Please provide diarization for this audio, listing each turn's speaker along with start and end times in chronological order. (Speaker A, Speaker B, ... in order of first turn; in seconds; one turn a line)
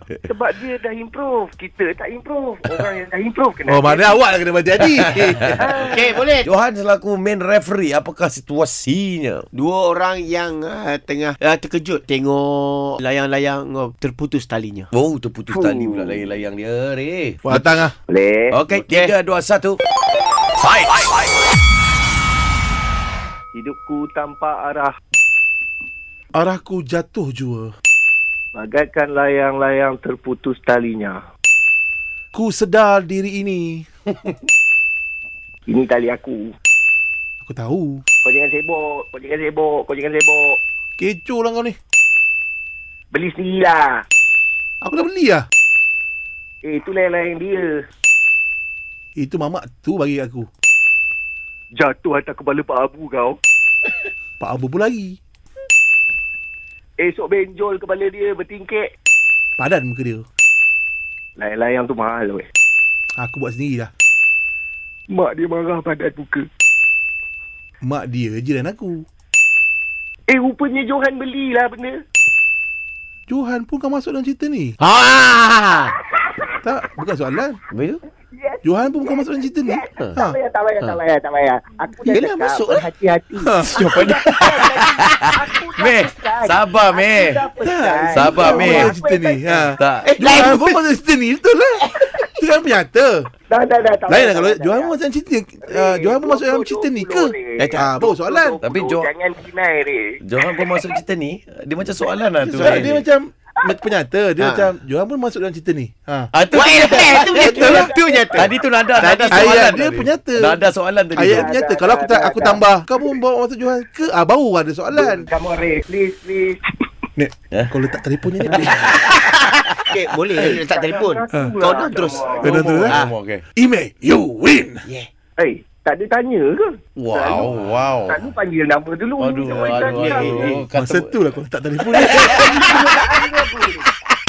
Speaker A: 0.3-4.2
Speaker B: 3.7-5.6
Speaker A: 5.6-6.2
Speaker C: 5.8-6.5
Speaker D: 6.4-9.5
Speaker C: 9.5-14.9
Speaker D: 14.9-17.7
Speaker A: 15.5-16.3
Speaker B: 17.4-17.9
Speaker A: 18.1-18.6
Speaker D: 18.5-19.8
Speaker C: 18.9-19.1
Speaker D: 20.6-21.1
Speaker A: 23.5-25.0
Speaker B: 26.3-27.8
Speaker A: 28.6-31.2
Speaker B: 32.3-33.9
Speaker A: 35.7-36.5
Speaker B: 37.4-38.0
Speaker A: 38.2-40.6
Speaker B: 41.0-41.8
Speaker A: 43.1-44.0
Speaker B: 44.8-45.5
Speaker A: 46.6-47.7
Speaker B: 49.2-50.5
Speaker A: 51.8-53.4
Speaker B: 54.4-55.2
Speaker A: 57.0-58.9
Speaker B: 59.6-60.3
Speaker A: 61.4-62.5
Speaker B: 63.2-63.9
Speaker A: 65.1-66.5
Speaker B: 67.8-69.0
Speaker A: 70.3-72.0
Speaker B: 73.3-74.8
Speaker C: 74.8-75.9
Speaker A: 76.2-76.4
Speaker B: 76.6-77.6
Speaker D: 77.7-78.0
Speaker A: 78.3-89.7
Speaker B: 78.6-80.4
Speaker C: 82.1-82.9
Speaker B: 83.4-84.3
Speaker D: 84.4-87.4
Speaker B: 87.6-93.3
Speaker D: 88.1-88.9
Speaker D: 89.8-90.2
Speaker C: 90.1-90.8
Speaker A: 93.5-94.9
Speaker B: 94.1-98.6
Speaker A: 95.7-100.2
Speaker C: 97.6-97.9
Speaker D: 98.6-99.1
Speaker D: 100.2-103.0
Speaker B: 102.4-106.3
Speaker C: 102.5-103.0
Speaker C: 104.4-104.7
Speaker D: 106.3-111.5
Speaker C: 106.5-108.5
Speaker A: 106.6-108.5
Speaker B: 107.4-107.9
Speaker B: 109.0-110.6
Speaker C: 109.2-109.7
Speaker B: 111.2-115.3
Speaker A: 111.3-112.6
Speaker A: 114.9-116.6
Speaker B: 117.2-119.0
Speaker D: 118.6-119.1
Speaker C: 118.8-123.1
Speaker A: 120.3-122.6
Speaker B: 122.4-123.0
Speaker D: 122.4-123.4
Speaker B: 123.6-124.8
Speaker A: 125.4-127.5
Speaker D: 127.0-128.3
Speaker A: 128.1-130.6
Speaker D: 129.2-131.2
Speaker C: 129.7-130.5
Speaker B: 130.7-132.8
Speaker D: 132.0-132.7
Speaker A: 132.2-133.9